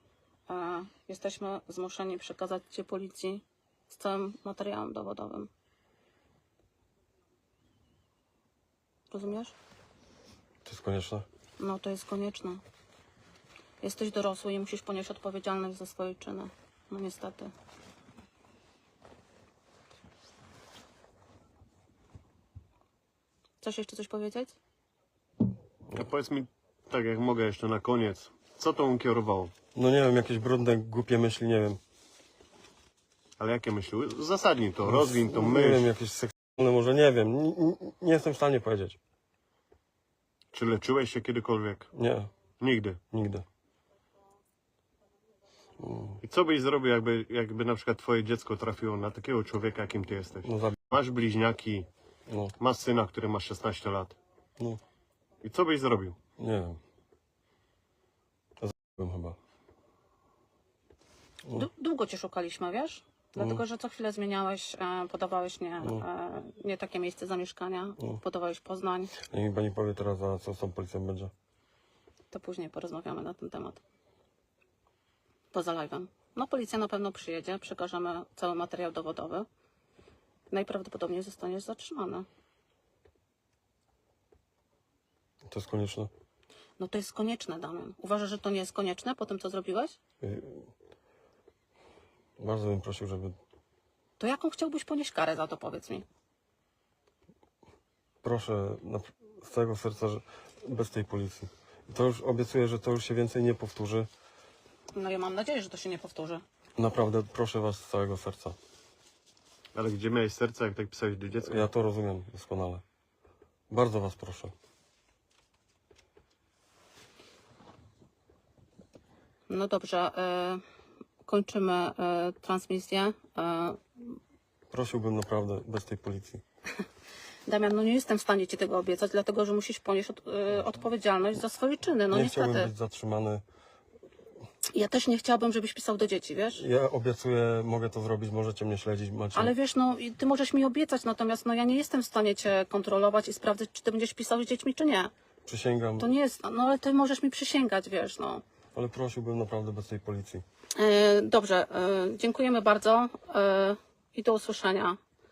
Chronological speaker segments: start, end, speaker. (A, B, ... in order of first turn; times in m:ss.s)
0:00.5-0:05.5 A
0:09.1-0:09.6 A
0:10.6-0:11.3 B
0:11.6-0:12.6 A
0:13.8-0:17.5 A
0:23.6-0:24.6 A
0:25.9-0:29.5 C
0:29.8-0:31.8 B
0:33.4-0:35.9 C
0:34.9-0:39.0 B
0:40.5-0:41.9 C
0:41.9-0:42.3 B
0:42.6-0:43.0 C
0:43.1-0:43.5 B
0:45.8-0:46.2 B
0:46.2-0:51.9 C
0:50.4-0:50.8 B
0:52.3-0:52.5 B
0:52.6-0:54.2 C
0:55.4-0:56.2 C
0:56.4-0:56.8 B
0:58.6-0:59.4 B
1:01.5-1:09.2 A
1:03.4-1:03.6 B
1:09.2-1:11.3 B
1:12.3-1:13.8 A
1:15.5-1:19.5 A
1:20.5-1:22.3 A
1:25.5-1:26.1 B
1:26.8-1:30.0 A
1:30.2-1:30.7 B
1:32.4-1:33.4 B
1:34.2-1:36.1 A
1:38.2-1:44.1 B
1:44.9-1:46.4 A
1:46.8-1:48.6 B
1:49.8-1:51.7 C
1:51.4-1:52.8 B
1:53.7-1:54.5 B
1:59.5-2:00.6 A
2:01.2-2:04.2 A
2:04.7-2:06.4 B
2:07.5-2:12.7 A
2:12.1-2:13.4 B
2:14.7-2:16.6 A
2:16.6-2:19.6 B
2:19.3-2:25.1 A
2:25.5-2:26.1 B
2:26.0-2:28.4 A
2:28.8-2:30.4 B
2:30.8-2:35.0 A